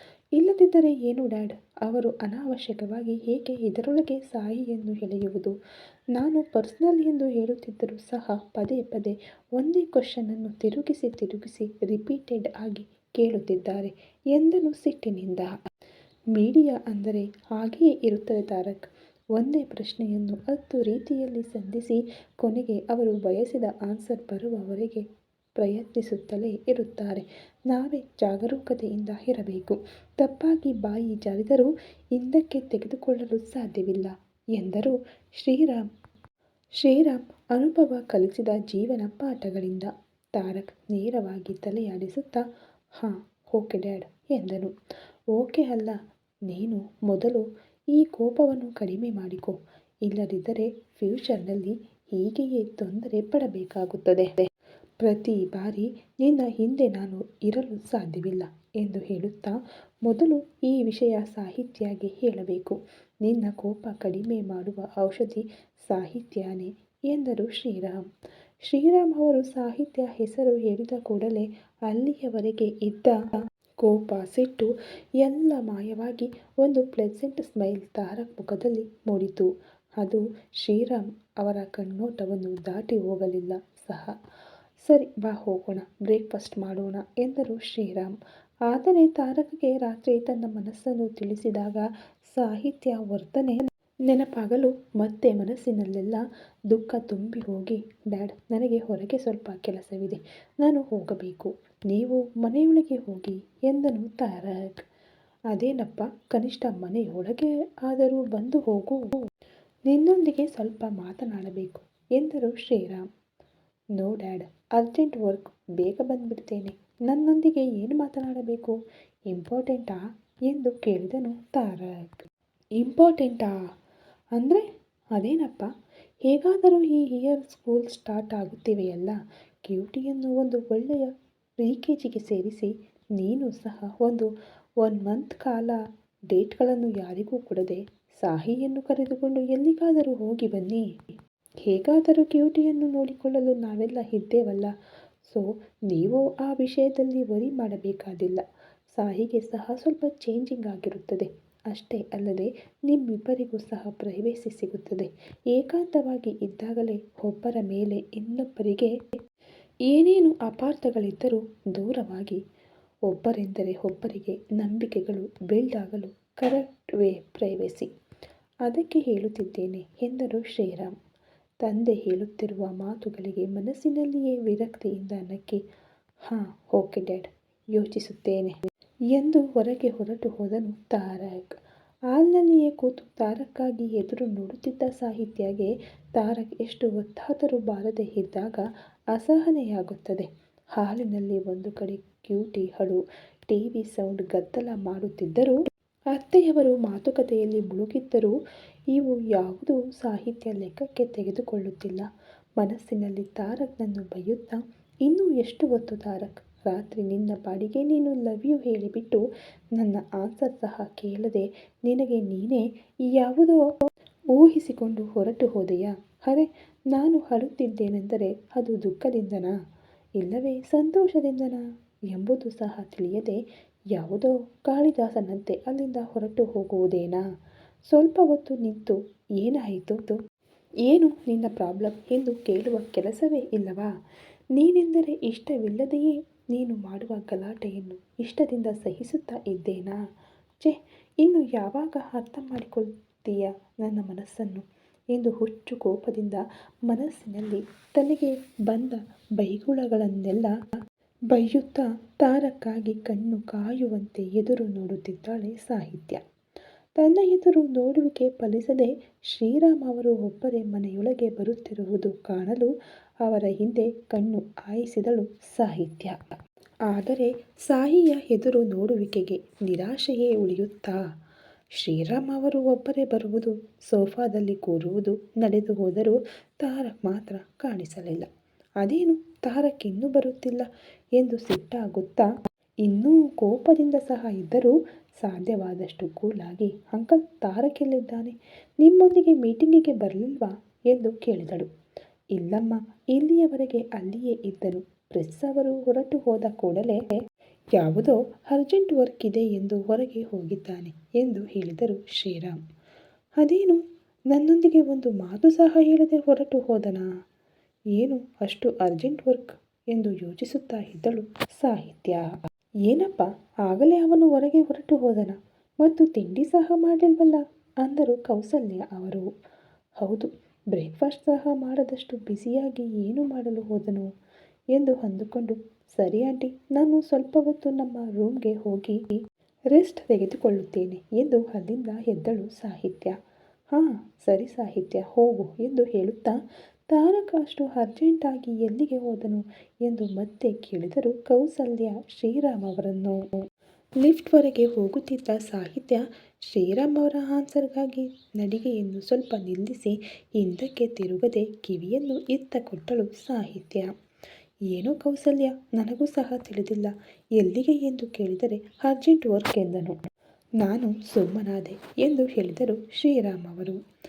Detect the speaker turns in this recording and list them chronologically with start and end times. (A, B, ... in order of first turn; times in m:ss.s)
0:00.4-0:05.5 A
0:06.2-0:15.5 A
0:16.4-0:25.0 A
0:25.6-0:35.9 A
0:36.8-0:44.7 A
0:45.3-0:54.4 A
0:55.0-1:08.1 A
1:08.6-1:14.7 A
1:15.2-1:19.5 A
1:20.0-1:24.2 A
1:24.9-1:28.2 A
1:28.7-1:44.8 A
1:45.5-1:49.2 A
1:49.9-1:53.1 A
1:54.0-1:58.8 A
1:59.3-2:02.3 A
2:02.8-2:03.6 A
2:04.4-2:04.6 A
2:05.2-2:05.7 A
2:06.3-2:14.3 A
2:14.8-2:20.9 A
2:21.6-2:24.7 A
2:25.3-2:39.0 A
2:39.9-2:42.4 A
2:43.1-2:47.9 A
2:48.6-2:51.0 A
2:51.6-2:55.6 A
2:56.2-2:58.6 A
2:59.1-3:01.6 A
3:02.1-3:15.6 A
3:16.1-3:18.3 A
3:18.9-3:22.1 A
3:22.6-3:29.2 A
3:29.8-3:33.6 A
3:34.3-3:39.6 A
3:40.2-3:43.4 A
3:43.9-3:47.2 A
3:47.9-3:50.2 A
3:50.9-3:53.9 A
3:54.6-4:00.0 A
4:00.6-4:10.6 A
4:11.3-4:16.2 A
4:17.0-4:22.7 A
4:23.2-4:26.2 A
4:26.9-4:31.0 A
4:31.8-4:38.3 A
4:38.8-4:42.3 A
4:42.8-4:51.7 A
4:52.4-4:57.2 A
4:57.8-5:02.6 A
5:03.4-5:07.1 A
5:08.0-5:12.2 A
5:12.9-5:19.3 A
5:20.0-5:24.1 A
5:24.7-5:29.2 A
5:29.7-5:33.2 A
5:33.7-5:36.4 A
5:36.9-5:43.3 A
5:44.0-5:53.9 A
5:54.7-6:00.0 A
6:00.6-6:03.8 A